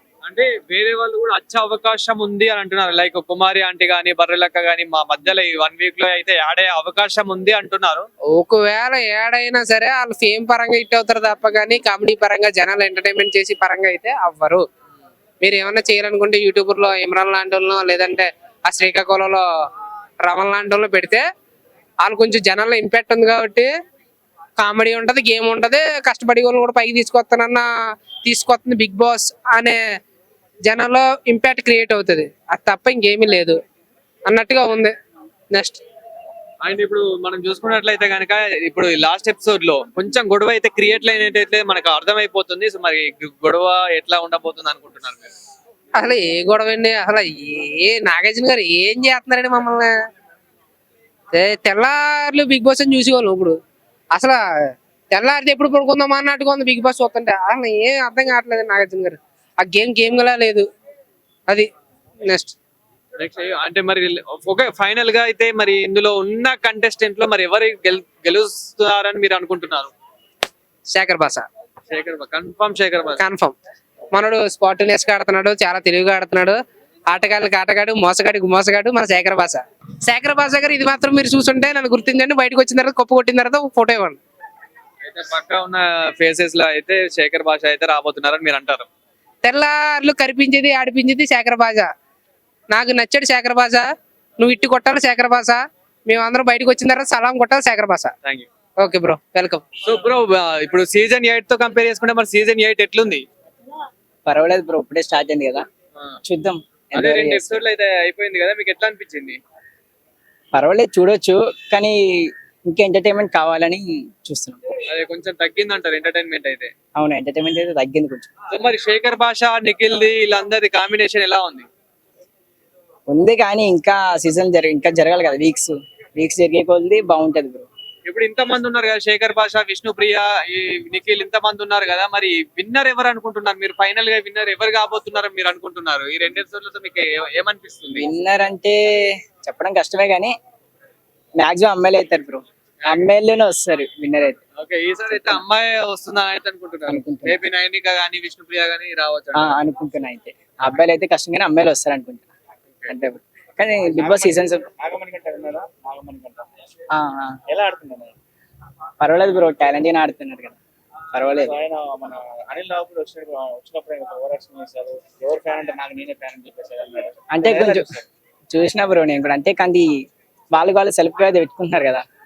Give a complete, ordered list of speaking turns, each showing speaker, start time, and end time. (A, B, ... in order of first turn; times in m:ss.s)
0:00.2-0:08.1 A
0:08.3-0:14.6 B
0:15.4-0:19.4 B
0:20.2-0:21.2 B
0:22.0-0:23.7 B
0:24.6-0:27.6 B
0:28.2-0:29.8 B
0:30.6-0:33.6 B
0:34.3-0:34.9 B
0:36.6-0:45.3 A
0:46.0-0:49.9 B
0:51.3-0:53.6 B
0:55.1-1:00.6 B
1:02.3-1:02.5 B
1:03.2-1:09.9 A
1:10.9-1:11.4 B
1:11.9-1:13.2 A
1:13.2-1:13.5 B
1:14.1-1:16.6 B
1:17.1-1:24.2 B
1:25.0-1:28.9 A
1:29.4-1:31.9 B
1:32.7-1:33.9 B
1:34.4-1:38.1 B
1:38.8-1:39.6 B
1:39.8-1:43.2 A
1:44.2-1:45.7 C
1:46.2-1:47.6 C
1:46.9-1:49.4 A
1:50.5-1:54.6 C
1:54.9-1:56.7 A
1:57.0-1:58.3 C
1:58.5-2:01.7 A
2:03.1-2:07.7 C
2:08.0-2:18.1 A
2:17.9-2:20.4 C
2:21.4-2:24.4 C
2:24.6-2:29.6 A
2:25.1-2:25.4 C
2:26.9-2:27.4 C
2:29.3-2:32.3 C
2:32.9-2:34.6 C
2:33.9-2:36.5 D
2:36.9-2:37.4 C
2:37.5-2:38.2 D
2:39.0-2:40.6 C
2:41.1-2:41.5 C
2:41.4-2:48.0 D
2:47.3-2:47.9 C
2:48.5-2:49.9 C
2:50.5-2:52.0 C